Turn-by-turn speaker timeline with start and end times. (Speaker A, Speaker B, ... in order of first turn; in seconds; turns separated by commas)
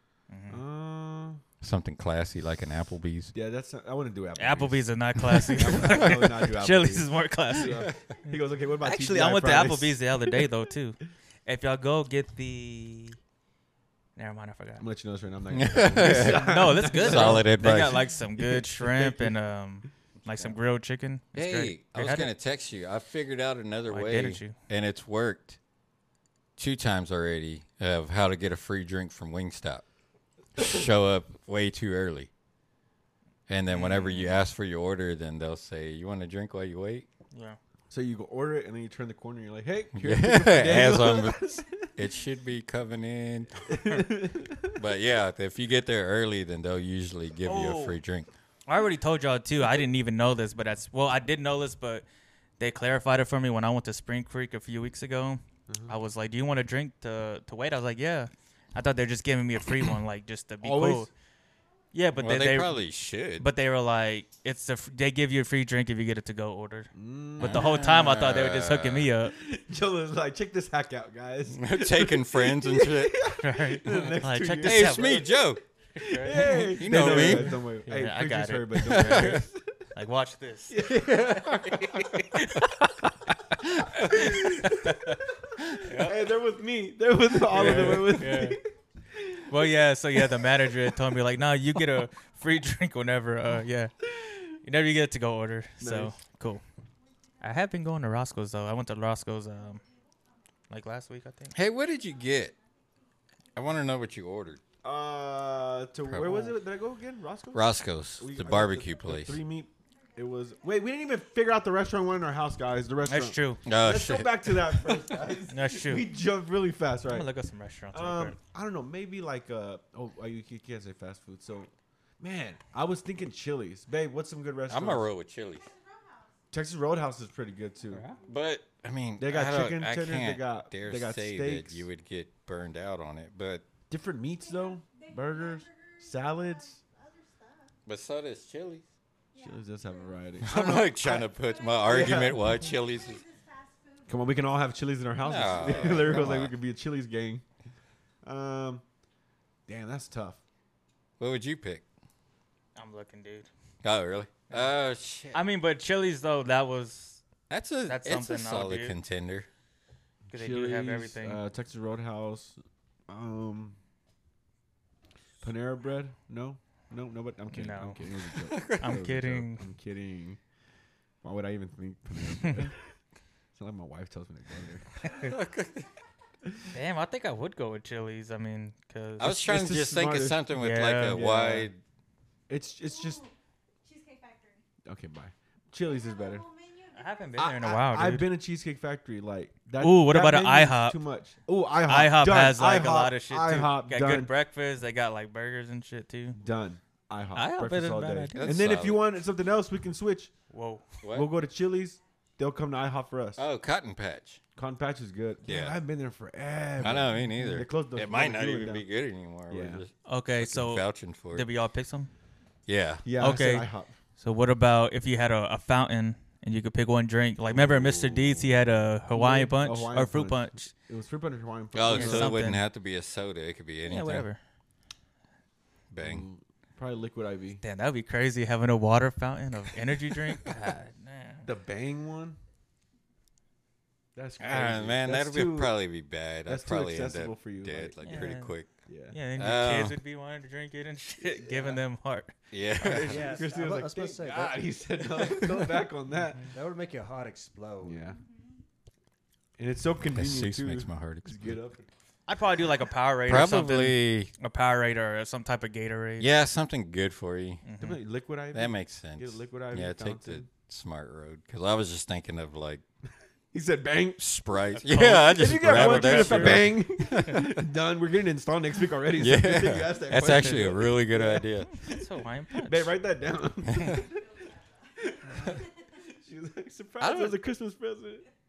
Speaker A: 0.3-0.6, Speaker B: 0.5-1.4, Speaker C: 1.6-3.3, Speaker B: 3.3-4.8, Speaker A: 4.4-13.2, Speaker B: 5.5-10.0, Speaker A: 14.2-14.8, Speaker B: 14.8-19.3, Speaker C: 15.5-18.0, Speaker A: 16.0-22.3, Speaker C: 21.3-25.6, Speaker A: 23.9-24.6, Speaker C: 26.6-29.8, Speaker C: 30.6-32.3, Speaker C: 33.5-37.1, Speaker A: 33.7-34.4, Speaker A: 37.3-37.6, Speaker B: 37.9-41.9, Speaker C: 39.9-43.8, Speaker B: 43.7-44.7, Speaker C: 44.7-48.3, Speaker A: 47.4-48.0, Speaker A: 48.7-52.0, Speaker A: 52.6-61.1, Speaker B: 55.7-56.0, Speaker B: 60.6-61.1, Speaker A: 61.9-69.3, Speaker C: 62.2-63.5, Speaker B: 66.9-68.0, Speaker C: 67.4-69.1, Speaker B: 69.3-75.2, Speaker C: 71.5-73.2, Speaker A: 73.4-75.4, Speaker C: 74.6-75.6, Speaker A: 76.0-82.7, Speaker B: 76.0-79.9, Speaker C: 76.3-77.6, Speaker C: 78.8-79.4, Speaker B: 80.7-82.3, Speaker C: 80.8-82.0, Speaker B: 83.8-89.5, Speaker A: 84.1-85.2, Speaker A: 85.8-86.1, Speaker A: 87.5-88.6, Speaker C: 87.5-88.0, Speaker A: 89.5-96.6, Speaker B: 95.8-96.2, Speaker A: 97.4-99.8, Speaker A: 100.7-101.5, Speaker C: 101.5-102.5, Speaker C: 103.5-104.6, Speaker B: 104.8-117.3, Speaker C: 106.1-106.5, Speaker C: 107.5-109.4, Speaker A: 113.1-113.6, Speaker C: 113.7-114.8, Speaker A: 115.5-116.1, Speaker A: 117.1-118.3, Speaker B: 117.9-125.1, Speaker C: 124.7-125.7, Speaker B: 126.5-128.1, Speaker C: 128.2-133.7, Speaker B: 129.2-131.8, Speaker B: 133.9-136.8, Speaker D: 134.8-137.7, Speaker C: 137.8-138.8, Speaker D: 139.4-139.6, Speaker B: 139.4-142.5, Speaker C: 140.4-143.2, Speaker D: 141.7-144.0, Speaker B: 144.1-147.4, Speaker C: 145.2-146.5, Speaker B: 148.2-148.8, Speaker B: 149.7-150.4, Speaker C: 151.2-151.8, Speaker A: 152.8-153.5, Speaker C: 153.8-155.4, Speaker A: 155.3-157.2, Speaker C: 157.5-159.5, Speaker A: 157.9-158.9, Speaker B: 160.3-162.6, Speaker A: 160.3-161.4, Speaker B: 163.1-163.8, Speaker B: 165.4-170.4, Speaker A: 167.5-168.1, Speaker C: 168.4-168.9, Speaker A: 168.8-169.6, Speaker B: 171.2-172.8, Speaker A: 172.4-172.7, Speaker B: 173.5-175.0, Speaker C: 175.2-175.9, Speaker A: 176.7-179.4, Speaker C: 179.2-181.8, Speaker B: 179.2-180.5, Speaker A: 180.6-181.2, Speaker B: 181.1-181.7, Speaker B: 182.5-183.2, Speaker D: 182.9-183.3, Speaker D: 183.8-184.6, Speaker B: 184.8-186.4, Speaker D: 185.9-187.3, Speaker A: 186.9-188.2, Speaker B: 187.4-194.3, Speaker A: 189.8-191.0, Speaker A: 191.8-196.4, Speaker B: 196.3-200.3, Speaker A: 197.3-198.5, Speaker C: 198.3-199.0, Speaker A: 200.5-201.0, Speaker C: 201.0-201.3, Speaker B: 201.1-203.4, Speaker C: 203.4-204.4, Speaker B: 204.6-208.8, Speaker C: 205.4-205.8, Speaker C: 206.8-211.4, Speaker B: 209.5-209.8, Speaker A: 210.1-212.1, Speaker C: 212.7-213.1, Speaker B: 213.0-213.9, Speaker A: 213.2-220.7, Speaker C: 217.6-218.4, Speaker B: 219.1-222.3, Speaker C: 221.7-224.3, Speaker A: 221.9-222.6, Speaker A: 223.8-224.4, Speaker C: 225.9-226.2, Speaker B: 226.0-227.6, Speaker A: 227.6-231.4, Speaker B: 231.4-232.4, Speaker B: 234.1-235.8, Speaker C: 234.4-238.7, Speaker B: 236.4-238.3, Speaker A: 238.0-238.5, Speaker B: 238.8-239.2, Speaker A: 239.1-243.4, Speaker C: 239.3-240.0, Speaker B: 241.5-241.8, Speaker C: 242.5-243.3, Speaker E: 243.0-244.7, Speaker B: 243.1-246.5, Speaker E: 246.5-248.1, Speaker B: 247.8-248.2, Speaker B: 249.6-251.8, Speaker C: 250.1-251.5, Speaker A: 252.3-256.3, Speaker C: 253.2-254.3, Speaker C: 256.2-257.6, Speaker A: 257.6-258.0, Speaker B: 257.8-260.5, Speaker C: 258.5-262.8, Speaker B: 263.5-264.2, Speaker C: 264.2-267.6, Speaker A: 264.8-266.8, Speaker B: 265.3-274.3, Speaker C: 269.1-271.7, Speaker A: 270.1-270.8, Speaker A: 271.7-272.9, Speaker B: 275.0-278.2, Speaker C: 277.0-277.4